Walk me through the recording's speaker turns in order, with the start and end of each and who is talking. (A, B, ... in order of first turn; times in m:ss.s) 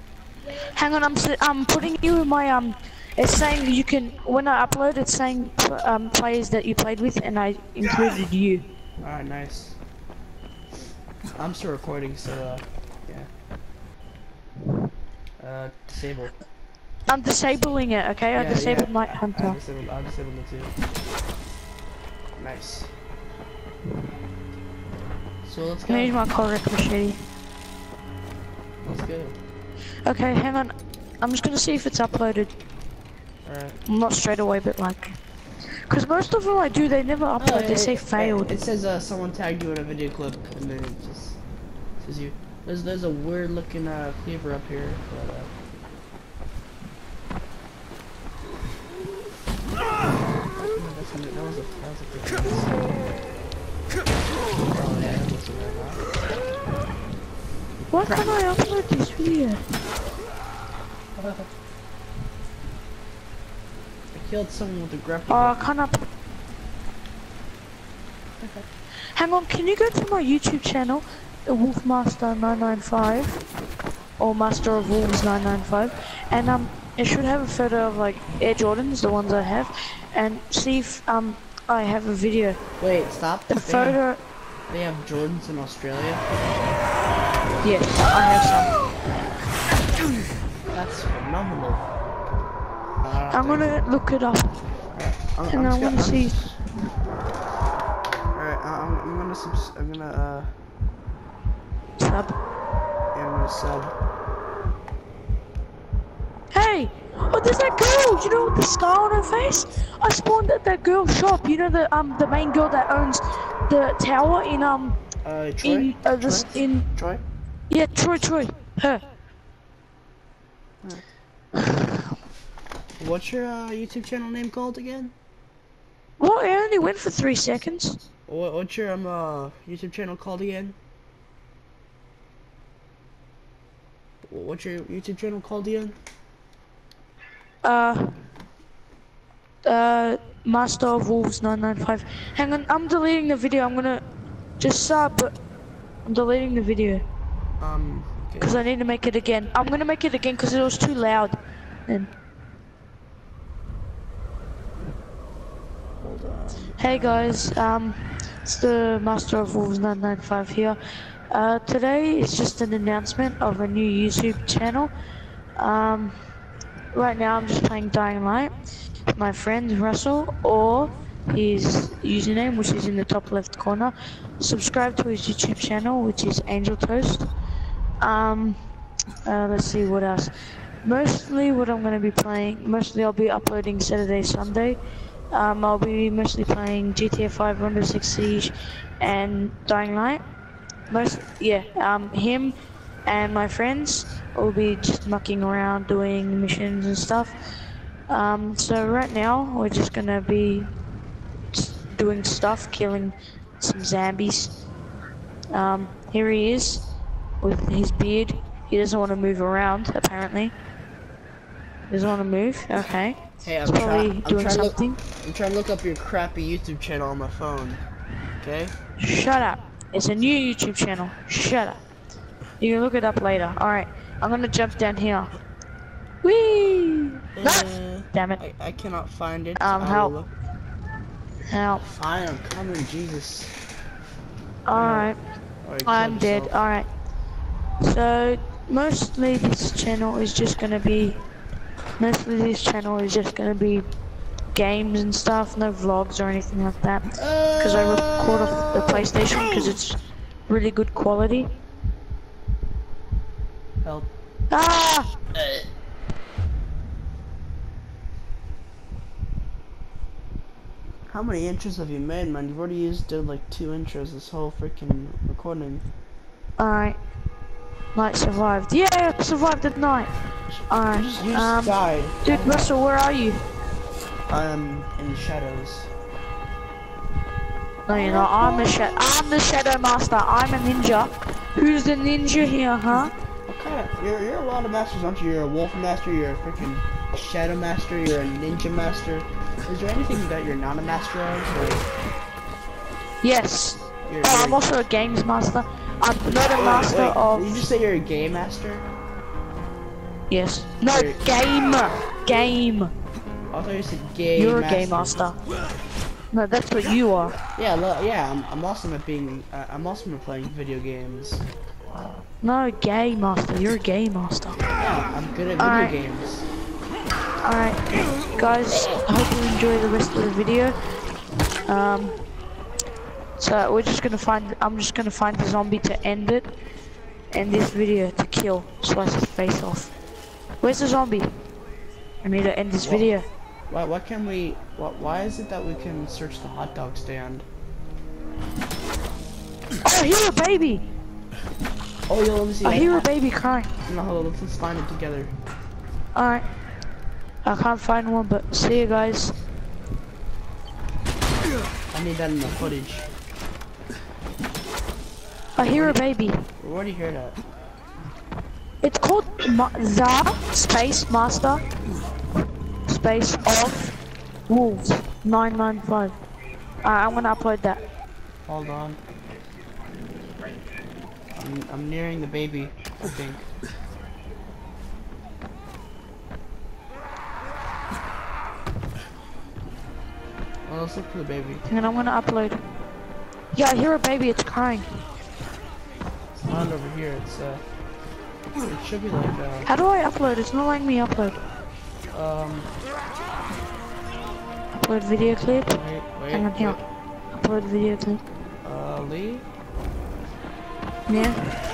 0:00.5-0:08.6 A
0:09.0-0:09.8 B
0:11.4-0:13.3 B
0:15.4-0:16.4 B
0:17.1-0:19.6 A
0:18.4-0:20.7 B
0:22.4-0:22.9 B
0:25.4-0:26.2 B
0:25.8-0:27.2 A
0:28.8-0:29.4 B
0:30.0-0:32.5 A
0:33.4-0:33.8 B
0:33.8-0:35.2 A
0:35.9-0:38.5 A
0:37.4-0:41.4 B
0:42.0-0:45.5 B
0:50.6-0:52.8 B
0:54.7-0:56.1 B
0:57.9-0:59.6 A
0:58.0-0:58.4 B
1:01.2-1:01.5 B
1:04.1-1:05.6 B
1:05.3-1:06.1 A
1:08.4-1:08.7 B
1:09.1-1:13.4 A
1:14.2-1:22.6 A
1:22.8-1:24.0 B
1:23.5-1:24.2 A
1:24.7-1:26.2 B
1:27.6-1:28.8 A
1:30.7-1:32.5 B
1:33.0-1:33.8 B
1:33.3-1:34.6 A
1:34.9-1:36.6 B
1:35.5-1:36.4 A
1:38.3-1:40.5 B
1:42.0-1:42.4 A
1:43.1-1:43.9 B
1:46.5-1:55.0 A
1:55.2-1:57.2 B
1:55.6-1:56.9 A
1:57.7-1:59.0 A
2:03.0-2:05.1 B
2:06.2-2:08.0 A
2:08.3-2:10.8 B
2:14.3-2:16.0 B
2:17.6-2:18.2 A
2:19.6-2:24.0 A
2:24.6-2:25.4 A
2:26.0-2:27.0 A
2:27.6-2:28.7 B
2:28.4-2:32.1 A
2:36.0-2:37.4 B
2:36.8-2:44.9 A
2:45.6-2:46.2 A
2:46.9-2:48.6 A
2:49.1-2:57.3 A
2:58.0-2:58.6 A
2:59.2-3:04.8 A
3:05.3-3:10.2 A
3:10.9-3:17.4 A
3:18.1-3:20.7 A
3:21.5-3:24.6 A
3:25.5-3:30.5 A
3:31.9-3:35.0 A
3:33.4-3:37.8 B
3:38.4-3:38.8 B
3:39.0-3:41.8 A
3:42.6-3:45.3 A
3:46.2-3:48.4 A
3:47.4-3:50.3 B
3:49.6-3:50.2 A
3:51.5-3:51.8 A
3:51.8-3:53.6 B
3:54.6-3:55.2 A
3:54.7-3:56.6 B
3:55.8-3:56.9 A
3:57.8-4:01.2 A
4:02.0-4:03.9 A
4:04.5-4:11.5 A
4:07.2-4:09.8 B
4:13.8-4:14.1 B
4:14.5-4:15.1 A
4:21.1-4:25.9 B
4:26.6-4:27.0 A
4:27.9-4:33.4 A
4:30.5-4:32.8 B
4:34.3-4:35.9 B
4:37.9-4:43.1 A
4:37.9-4:38.8 B
4:43.5-4:51.9 B
4:53.2-4:57.6 A
4:54.1-4:54.7 B
4:56.5-4:58.9 B
5:00.3-5:02.9 A
5:00.9-5:01.3 B
5:03.5-5:05.3 B
5:04.3-5:05.4 A
5:06.3-5:07.4 A
5:07.6-5:11.5 B
5:12.4-5:14.6 A
5:14.8-5:16.5 B
5:15.6-5:16.0 A
5:17.4-5:20.8 A
5:21.7-5:22.2 A
5:23.4-5:26.5 A
5:27.3-5:29.9 A
5:30.6-5:31.3 A
5:32.2-5:33.3 A
5:32.8-5:33.1 B
5:33.7-5:37.4 B
5:39.8-5:40.8 A
5:42.1-5:43.1 B
5:42.6-5:43.7 A
5:43.9-5:45.3 B
5:46.1-5:46.4 A
5:47.4-5:49.4 A
5:51.9-5:53.1 B
5:55.6-5:56.4 A
5:55.7-5:56.0 B
5:56.6-5:57.4 B
5:58.8-6:01.6 A
6:02.9-6:06.2 A
6:06.8-6:07.8 A
6:08.5-6:09.0 B
6:11.3-6:13.5 B
6:20.7-6:21.6 B
6:21.7-6:22.6 A
6:23.5-6:25.0 A
6:26.4-6:27.6 B
6:28.6-6:29.7 B
6:29.7-6:31.4 A
6:32.1-6:32.7 B
6:34.8-6:36.8 A
6:35.5-6:36.8 B
6:37.3-6:38.2 A
6:38.6-6:39.5 B
6:41.1-6:41.4 A